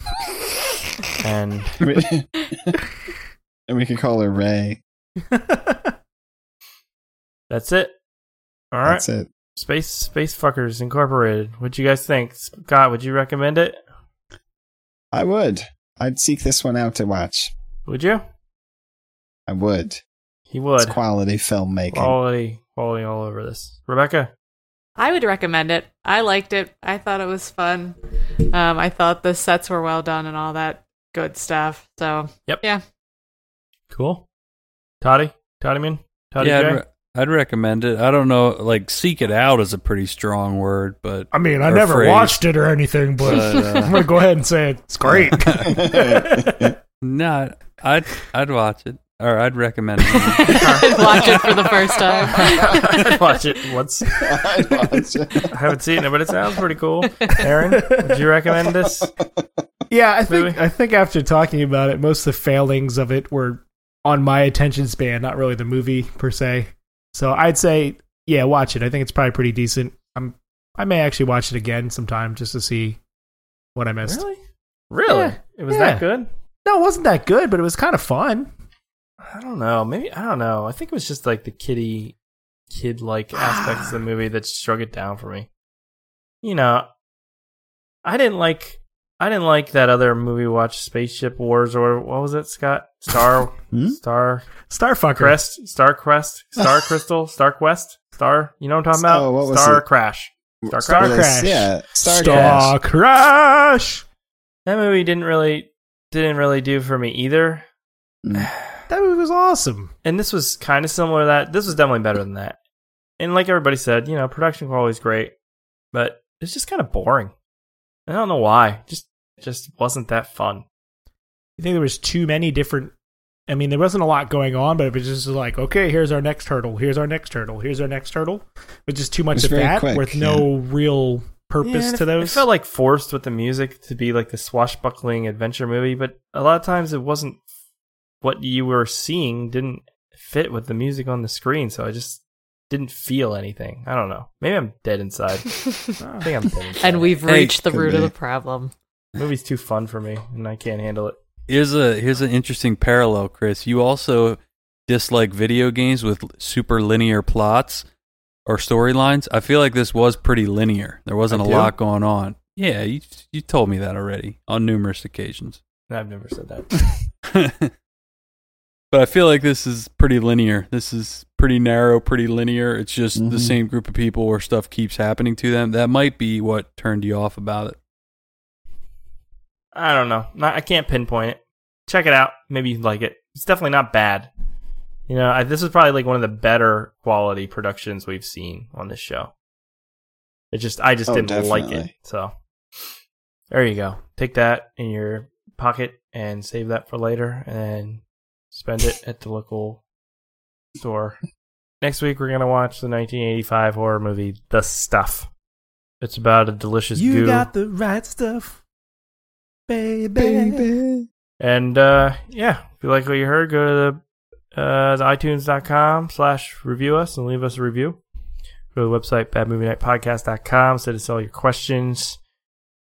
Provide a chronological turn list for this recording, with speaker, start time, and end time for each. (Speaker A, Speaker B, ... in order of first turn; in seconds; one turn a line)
Speaker A: 1.2-1.9
Speaker B: 1.8-2.8
Speaker B: 3.7-4.8
Speaker C: 5.3-5.9
Speaker A: 7.5-8.0
Speaker A: 8.7-13.8
Speaker B: 8.9-9.3
Speaker B: 15.1-17.5
Speaker A: 17.9-18.2
Speaker B: 19.5-20.0
Speaker A: 20.5-21.0
Speaker B: 20.8-22.2
Speaker A: 21.9-24.3
Speaker D: 25.0-28.0
Speaker D: 28.5-32.8
Speaker A: 33.9-34.2
Speaker A: 35.0-36.8
Speaker E: 36.4-42.4
Speaker C: 41.3-46.7
Speaker E: 43.2-44.0
Speaker B: 45.0-46.8
Speaker E: 45.5-45.7
Speaker E: 47.0-51.7
Speaker D: 50.1-53.0
Speaker A: 50.4-51.4
Speaker A: 52.4-54.2
Speaker B: 54.2-55.8
Speaker A: 55.5-59.1
Speaker D: 57.0-57.5
Speaker C: 57.7-58.3
Speaker B: 59.0-59.3
Speaker C: 59.9-73.0
Speaker A: 60.3-60.6
Speaker C: 73.8-74.2
Speaker A: 74.0-74.4
Speaker A: 74.9-76.3
Speaker C: 75.1-76.1
Speaker C: 76.7-78.5
Speaker A: 79.2-82.2
Speaker A: 82.7-85.5
Speaker C: 83.3-83.9
Speaker A: 86.4-86.9
Speaker A: 88.0-94.5
Speaker B: 93.7-94.0
Speaker C: 94.7-95.4
Speaker A: 95.1-101.4
Speaker B: 99.0-99.8
Speaker B: 100.6-102.7
Speaker C: 100.8-104.0
Speaker A: 102.1-102.7
Speaker A: 104.7-107.7
Speaker B: 108.2-108.5
Speaker A: 108.3-108.9
Speaker C: 108.9-109.9
Speaker A: 110.0-112.6
Speaker A: 113.2-115.3
Speaker A: 115.9-117.3
Speaker A: 118.1-120.7
Speaker C: 121.6-122.9
Speaker C: 123.5-132.5
Speaker B: 129.3-130.5
Speaker A: 131.6-137.4
Speaker A: 138.2-145.7
Speaker D: 145.7-146.0
Speaker C: 146.0-146.3
Speaker A: 146.2-147.2
Speaker D: 146.8-148.7
Speaker E: 147.3-147.6
Speaker B: 147.7-148.1
Speaker A: 149.2-151.2
Speaker E: 151.5-157.8
Speaker E: 158.5-165.6
Speaker A: 161.3-161.7
Speaker A: 165.9-166.9
Speaker E: 167.3-167.7
Speaker E: 168.9-177.8
Speaker B: 173.2-173.6
Speaker A: 179.7-184.3
Speaker A: 185.1-189.3
Speaker A: 190.5-192.3
Speaker B: 191.1-191.9
Speaker A: 193.5-199.8
Speaker A: 200.8-201.2
Speaker A: 201.8-205.3
Speaker A: 206.0-207.5
Speaker C: 206.9-208.6
Speaker C: 209.7-210.7
Speaker B: 210.2-211.1
Speaker A: 211.4-214.0
Speaker A: 214.5-218.0
Speaker A: 218.7-222.2